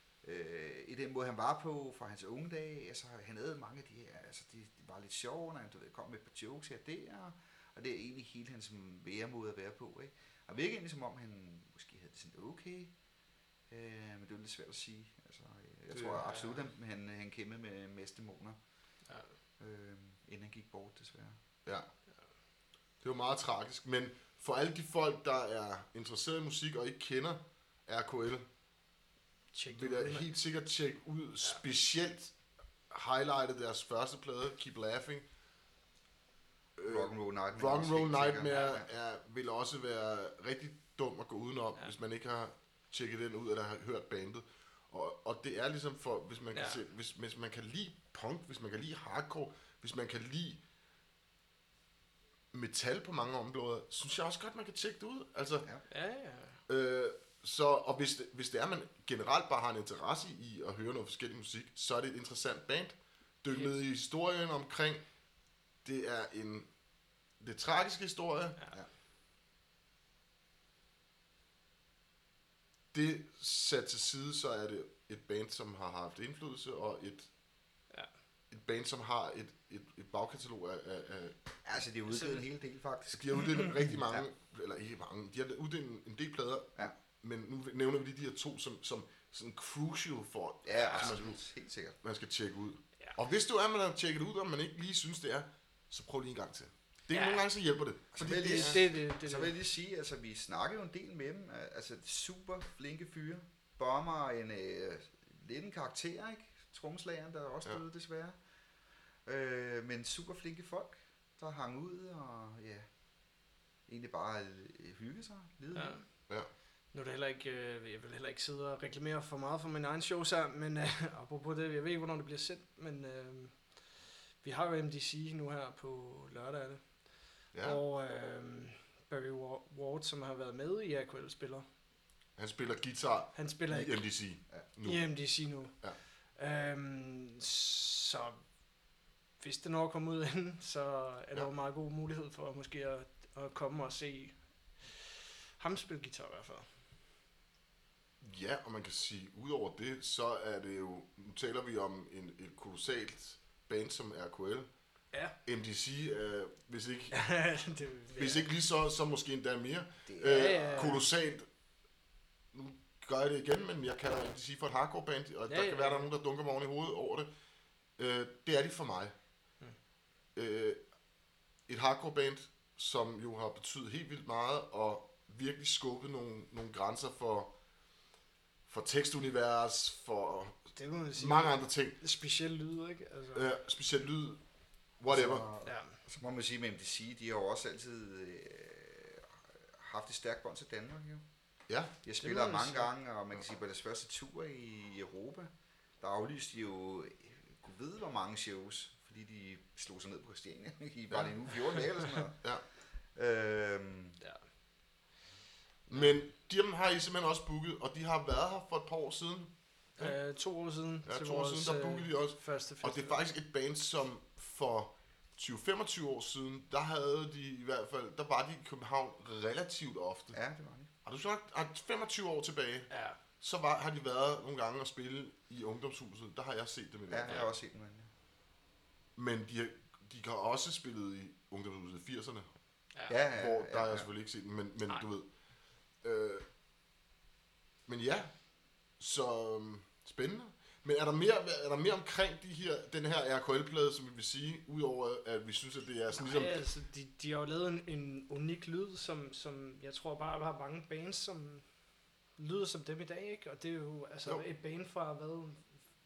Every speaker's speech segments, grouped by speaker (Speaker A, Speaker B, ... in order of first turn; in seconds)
Speaker A: 0.2-12.9, 13.7-18.6, 19.6-21.4, 36.9-38.9, 81.7-84.2, 90.7-92.0, 98.1-108.4, 109.2-112.9, 113.9-116.0, 160.1-161.0, 185.1-191.2, 192.0-204.2, 220.3-220.9, 227.1-228.1, 233.1-234.1
Speaker B: 16.2-16.6, 29.5-30.3, 46.5-46.8, 55.9-56.6, 82.1-82.4, 90.8-91.2, 97.1-97.5, 98.2-99.5, 115.7-116.0, 116.9-131.7, 133.3-134.0, 134.8-135.8, 136.3-138.4, 139.4-146.7, 157.1-158.5, 160.3-161.1, 165.5-166.1, 180.8-183.5, 185.7-185.9, 192.2-192.9, 210.0-213.2, 222.9-223.2, 246.2-251.7, 252.4-255.6
Speaker C: 23.0-28.5, 29.7-32.3, 32.9-35.2, 36.8-50.6, 52.5-55.7, 56.7-65.0, 65.8-66.7, 67.4-68.6, 72.9-77.3, 78.5-81.4, 83.1-91.4, 92.0-98.8, 127.5-127.8, 132.4-135.1, 148.2-154.7, 155.4-157.2, 158.2-161.5, 162.5-167.3, 168.0-169.1, 170.3-170.8, 171.7-177.5, 178.7-182.0, 183.3-184.4, 185.0-185.5, 191.7-191.9, 205.9-210.2, 211.1-220.4, 221.1-227.5, 229.2-232.5, 233.3-235.3, 236.0-236.4, 237.9-238.3, 239.0-246.6